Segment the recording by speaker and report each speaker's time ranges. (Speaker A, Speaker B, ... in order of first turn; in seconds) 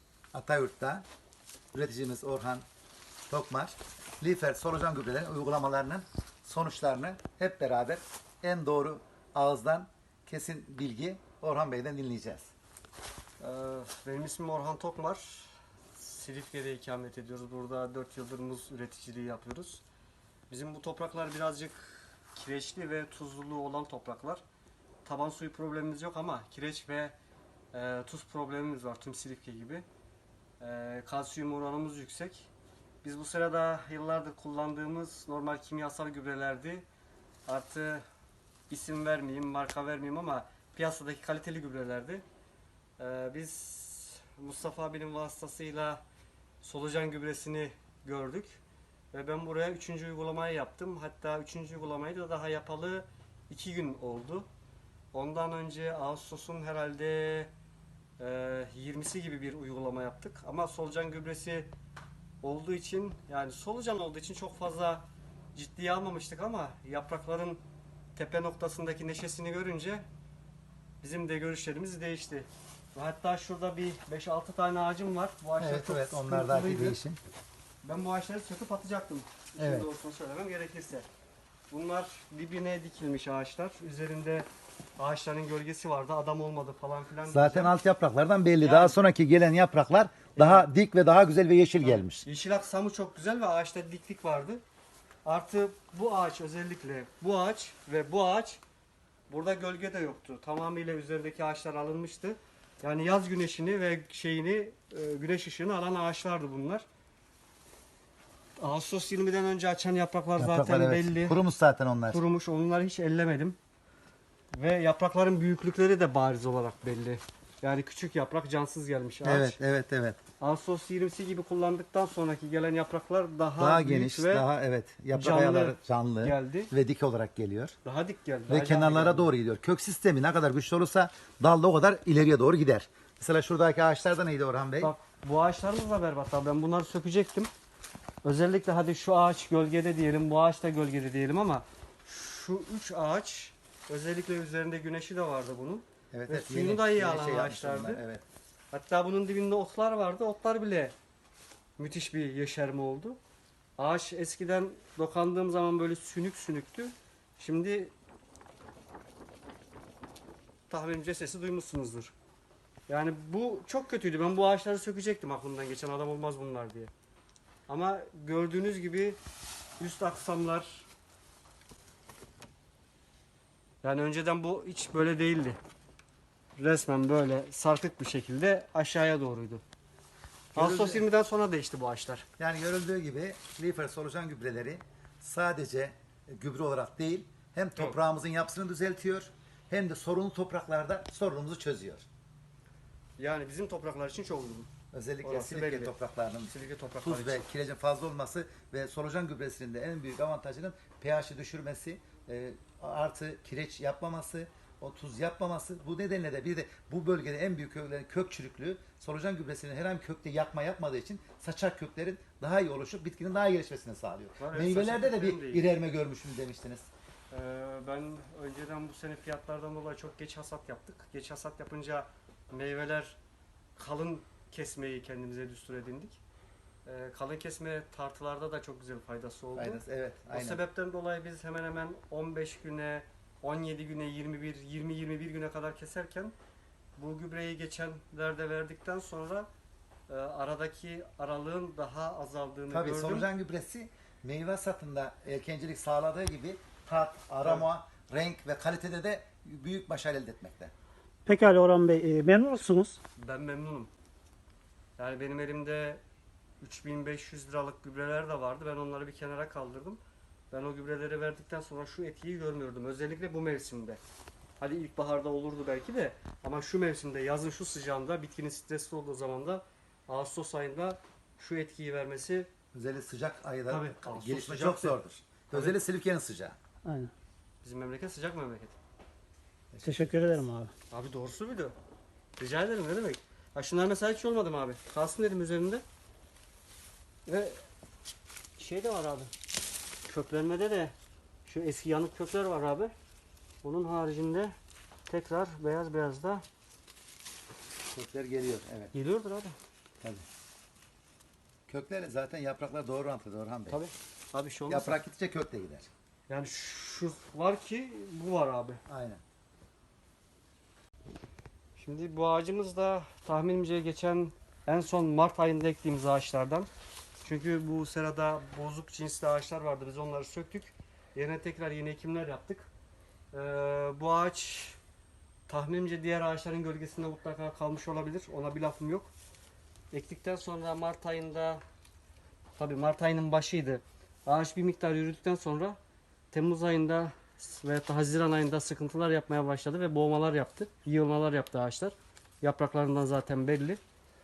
Speaker A: 0.3-1.1, 1.7-2.7, 3.3-12.5, 75.6-77.2, 79.6-79.9, 87.3-92.2, 110.4-112.2, 119.2-120.2, 123.6-127.8, 128.5-134.9, 146.1-148.3, 180.6-181.1, 182.4-192.1, 194.9-216.9, 229.6-230.6, 242.7-250.7, 272.7-276.6, 279.7-280.4, 297.9-298.9, 301.7-303.8, 304.7-305.9, 308.9-309.2
Speaker B: 13.4-19.8, 20.5-24.4, 25.1-27.2, 27.7-29.9, 30.6-32.5, 33.0-36.9, 37.5-38.0, 38.7-42.2, 43.0-46.0, 46.6-48.6, 49.1-54.5, 55.1-57.5, 58.2-61.7, 62.4-67.6, 68.2-70.1, 71.0-77.0, 77.8-81.1, 81.7-87.7, 88.6-89.0, 90.4-90.7, 91.8-94.6, 95.2-98.6, 99.3-106.8, 108.6-111.4, 112.1-113.6, 114.5-119.6, 120.4-124.5, 125.1-126.7, 127.8-129.3, 134.8-137.5, 138.2-148.0, 148.7-150.9, 151.8-153.2, 153.8-157.9, 160.7-162.1, 162.9-166.9, 167.7-169.2, 169.8-170.9, 173.8-175.6, 176.6-179.6, 180.6-182.3, 193.2-194.7, 195.2-195.9, 196.5-197.5, 214.4-215.7, 217.3-223.2, 223.8-226.2, 226.9-236.3, 237.0-239.5, 240.1-243.3, 247.4-247.7, 253.2-253.9, 255.0-256.0, 256.6-260.0, 260.5-264.0, 264.6-272.5, 273.7-275.8, 277.6-278.8, 280.9-281.7, 282.4-285.8, 287.3-287.6, 288.6-289.3, 290.1-290.9, 291.5-292.9, 293.6-294.6, 295.1-296.4, 298.9-299.6, 303.7-305.0, 306.3-308.8, 311.8-316.7, 317.2-322.7, 323.3-324.8, 325.5-329.1, 329.9-331.6, 332.6-335.8, 336.3-343.8
Speaker C: 251.3-253.0, 276.9-277.1, 279.8-280.7